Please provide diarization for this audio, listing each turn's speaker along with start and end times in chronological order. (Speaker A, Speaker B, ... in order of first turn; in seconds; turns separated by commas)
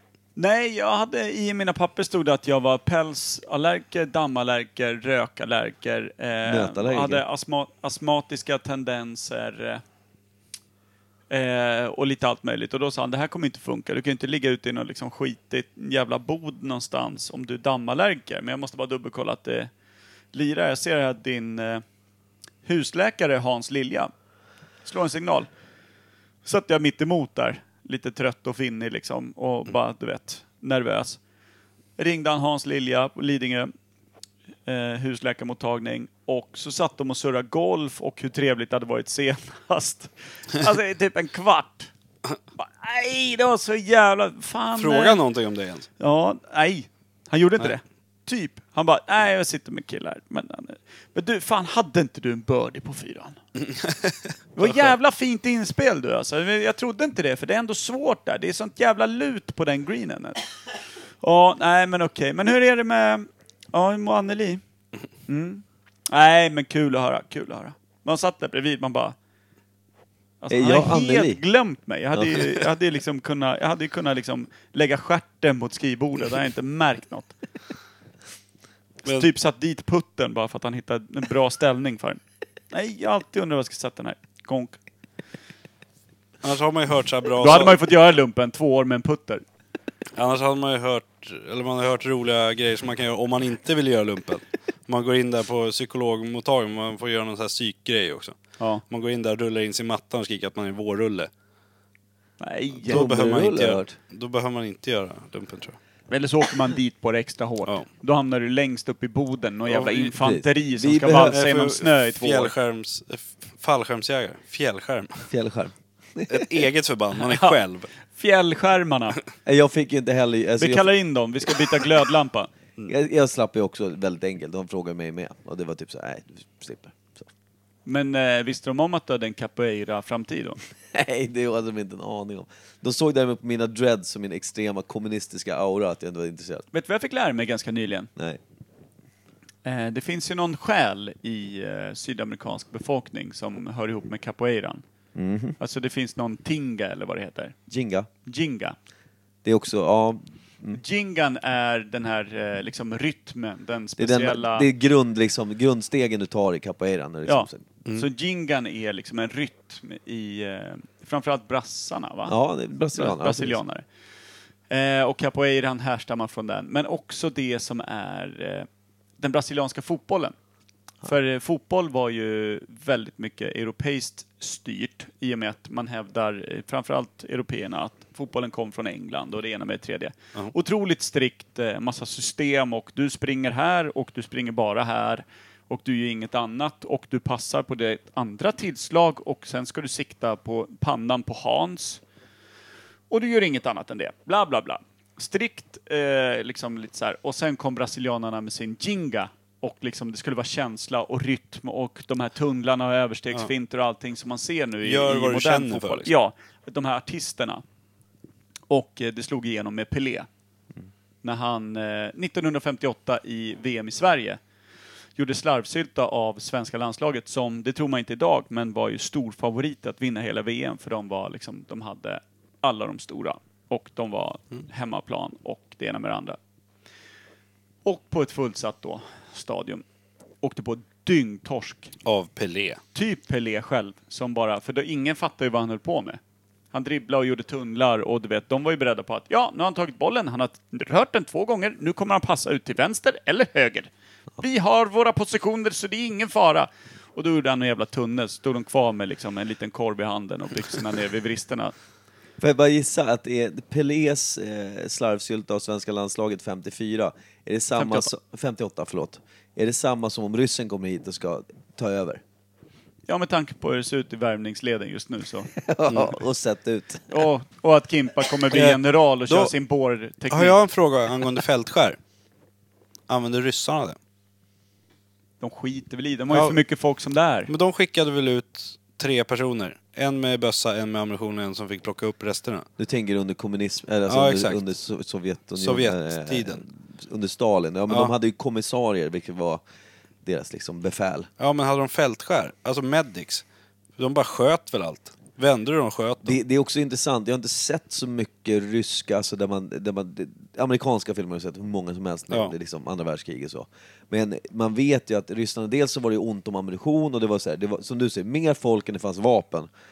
Speaker A: 0.3-9.8, Speaker B: 6.4-7.2, Speaker A: 11.3-19.7, Speaker A: 20.3-21.8, Speaker A: 22.6-24.1, Speaker A: 24.8-25.5, Speaker A: 26.4-31.2, Speaker A: 32.0-33.7, Speaker A: 34.7-41.9, Speaker A: 42.6-45.2, Speaker C: 44.8-45.9, Speaker A: 46.0-53.4, Speaker C: 53.6-54.9, Speaker A: 54.5-60.4, Speaker A: 61.2-64.6, Speaker A: 65.3-69.1, Speaker A: 70.4-77.3, Speaker B: 70.5-71.4, Speaker B: 72.1-72.4, Speaker A: 79.0-82.2, Speaker A: 82.7-84.8, Speaker C: 86.4-87.8, Speaker A: 87.4-89.4, Speaker C: 90.2-98.3, Speaker C: 98.9-101.3, Speaker A: 102.4-103.0, Speaker B: 102.9-103.9, Speaker C: 102.9-105.8, Speaker A: 106.1-112.5, Speaker C: 109.7-110.0, Speaker B: 110.1-111.4, Speaker C: 111.2-115.3, Speaker B: 115.3-116.5, Speaker C: 116.3-117.9, Speaker A: 117.2-117.5, Speaker A: 118.1-119.2, Speaker B: 119.5-120.9, Speaker A: 120.6-122.5, Speaker B: 122.9-127.3, Speaker A: 127.8-130.6, Speaker B: 130.9-136.6, Speaker A: 136.7-138.1, Speaker A: 139.6-144.8, Speaker B: 145.1-145.6, Speaker A: 145.6-147.5, Speaker B: 147.7-148.1, Speaker A: 148.3-148.8, Speaker B: 149.4-150.8, Speaker A: 150.8-154.7, Speaker B: 154.0-157.7, Speaker A: 157.3-162.3, Speaker B: 162.3-163.6, Speaker A: 162.9-163.8, Speaker A: 164.7-168.7, Speaker A: 169.2-170.3, Speaker A: 171.0-192.0, Speaker A: 193.1-207.6, Speaker C: 204.8-206.1, Speaker A: 208.7-210.3, Speaker A: 211.2-214.4, Speaker A: 215.2-226.4, Speaker A: 227.8-229.8, Speaker A: 230.4-231.9, Speaker C: 232.0-232.8, Speaker A: 232.9-236.2, Speaker A: 236.7-251.7, Speaker B: 252.4-262.2, Speaker A: 257.8-258.1, Speaker A: 263.1-265.5, Speaker B: 265.6-267.1, Speaker C: 265.9-266.1, Speaker A: 267.1-270.6, Speaker C: 268.5-269.5, Speaker C: 270.3-272.0, Speaker C: 273.1-274.0, Speaker A: 275.4-277.5, Speaker C: 276.3-276.6, Speaker C: 277.5-282.6, Speaker B: 282.8-289.6, Speaker C: 284.1-284.6, Speaker C: 285.6-286.6, Speaker B: 290.2-291.3, Speaker C: 291.4-293.4, Speaker C: 294.0-296.4, Speaker B: 296.2-309.7